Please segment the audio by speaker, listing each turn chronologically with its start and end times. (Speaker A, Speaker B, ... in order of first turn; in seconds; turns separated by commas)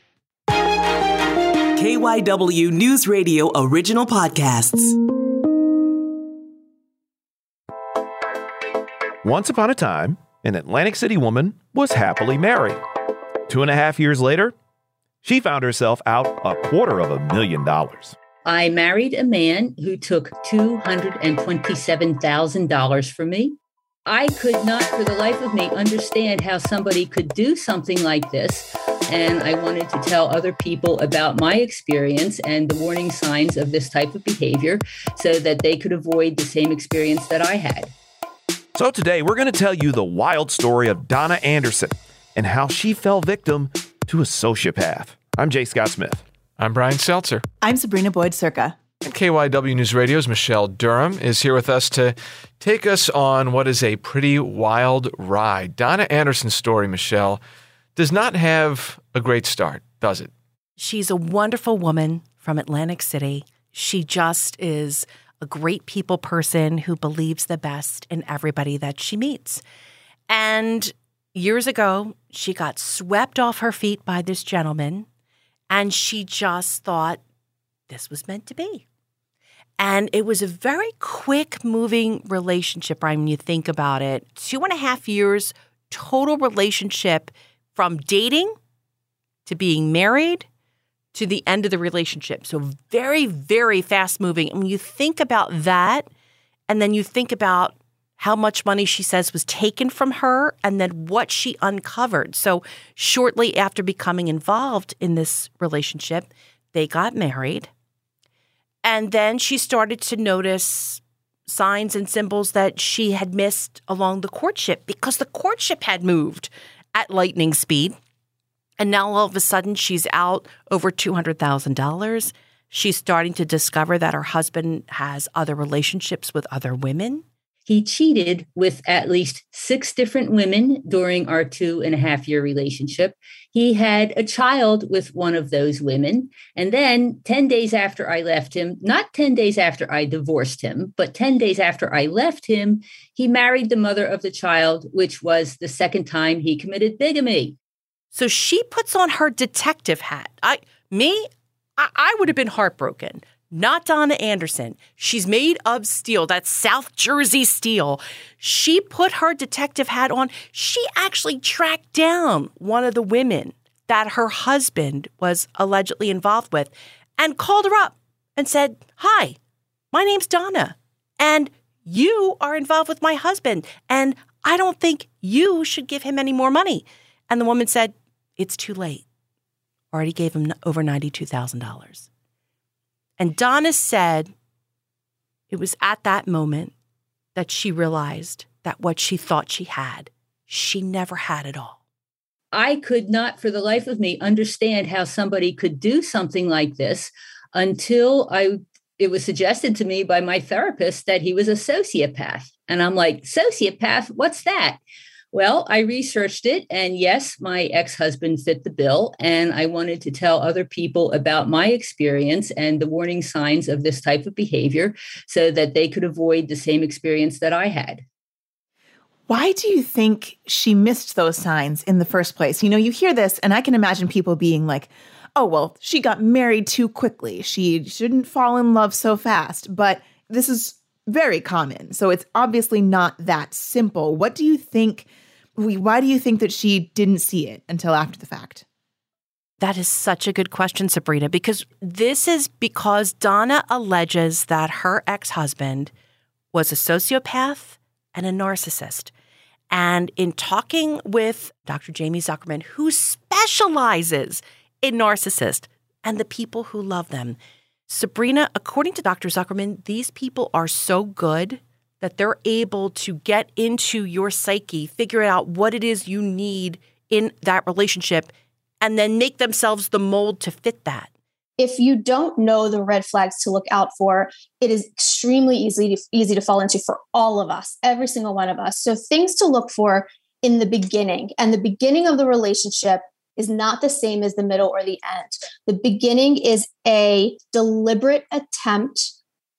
Speaker A: 1.8-4.8, Speaker B: 9.2-12.8, Speaker B: 13.5-14.5, Speaker B: 15.2-18.2, Speaker C: 18.4-37.9, Speaker B: 38.8-46.2, Speaker D: 46.6-47.4, Speaker E: 47.6-48.8, Speaker D: 49.0-57.4, Speaker D: 58.0-60.3, Speaker F: 60.8-69.6, Speaker F: 70.3-75.1, Speaker F: 75.7-77.2, Speaker F: 77.9-78.8, Speaker F: 79.8-88.5, Speaker F: 89.5-90.5, Speaker F: 91.1-96.1, Speaker F: 96.7-107.7, Speaker F: 108.8-118.0, Speaker F: 118.8-127.2, Speaker C: 127.7-147.6, Speaker F: 148.1-169.4, Speaker F: 169.9-179.1, Speaker F: 179.9-182.1, Speaker F: 183.2-184.3, Speaker F: 185.5-186.7, Speaker F: 187.3-191.8, Speaker C: 192.5-204.8, Speaker C: 205.3-218.1, Speaker E: 219.3-235.1, Speaker E: 235.6-238.6, Speaker F: 239.6-245.9, Speaker F: 246.5-249.1, Speaker F: 249.7-271.1, Speaker G: 271.6-289.1